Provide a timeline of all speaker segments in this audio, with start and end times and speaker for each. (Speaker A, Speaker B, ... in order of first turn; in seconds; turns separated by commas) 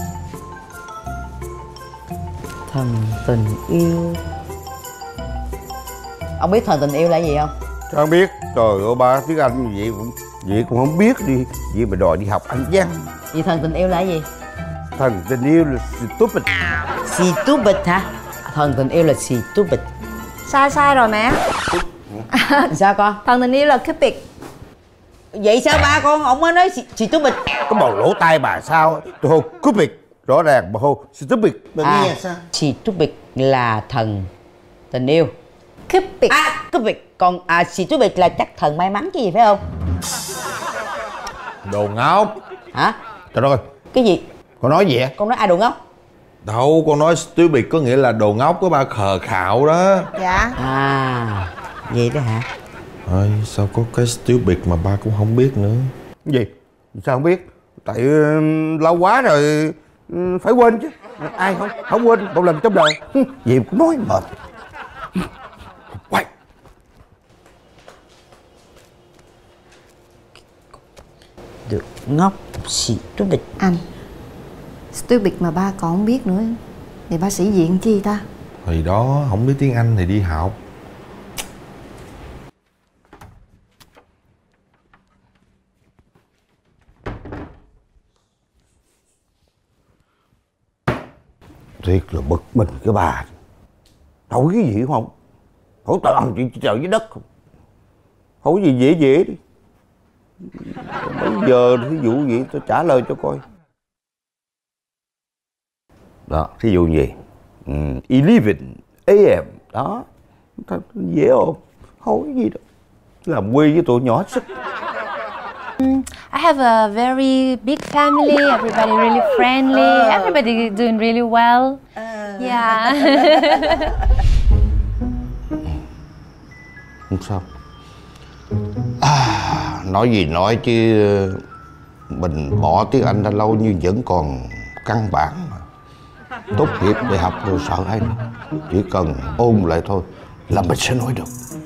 Speaker A: 2.7-4.2, Speaker A: 6.4-7.5, Speaker B: 7.9-13.0, Speaker A: 13.3-14.2, Speaker B: 14.9-16.5, Speaker A: 17.1-19.8, Speaker C: 20.4-21.4, Speaker C: 22.3-22.7, Speaker A: 22.7-23.2, Speaker C: 23.2-24.2, Speaker A: 25.3-27.4, Speaker B: 27.7-32.4, Speaker A: 31.8-34.3, Speaker A: 34.9-35.3, Speaker C: 35.9-36.3, Speaker A: 36.3-39.6, Speaker D: 41.6-42.3, Speaker B: 43.3-43.6, Speaker A: 43.9-44.2, Speaker B: 44.6-45.1, Speaker A: 45.1-45.8, Speaker D: 46.4-50.1, Speaker C: 50.1-50.5, Speaker A: 50.6-52.5, Speaker D: 53.1-55.9, Speaker B: 56.2-64.3, Speaker A: 71.7-73.4, Speaker C: 74.9-76.6, Speaker C: 77.1-78.2, Speaker D: 78.6-80.6, Speaker B: 91.8-93.3, Speaker B: 94.3-95.1, Speaker B: 95.9-97.2, Speaker B: 98.4-99.4, Speaker B: 100.5-103.4, Speaker B: 106.3-107.2, Speaker B: 107.7-110.1, Speaker B: 110.6-112.6, Speaker B: 113.2-114.5, Speaker E: 115.8-121.8, Speaker E: 122.3-123.9, Speaker B: 127.1-127.4, Speaker B: 129.0-131.4, Speaker B: 132.1-135.6, Speaker B: 136.5-138.2, Speaker B: 138.7-141.3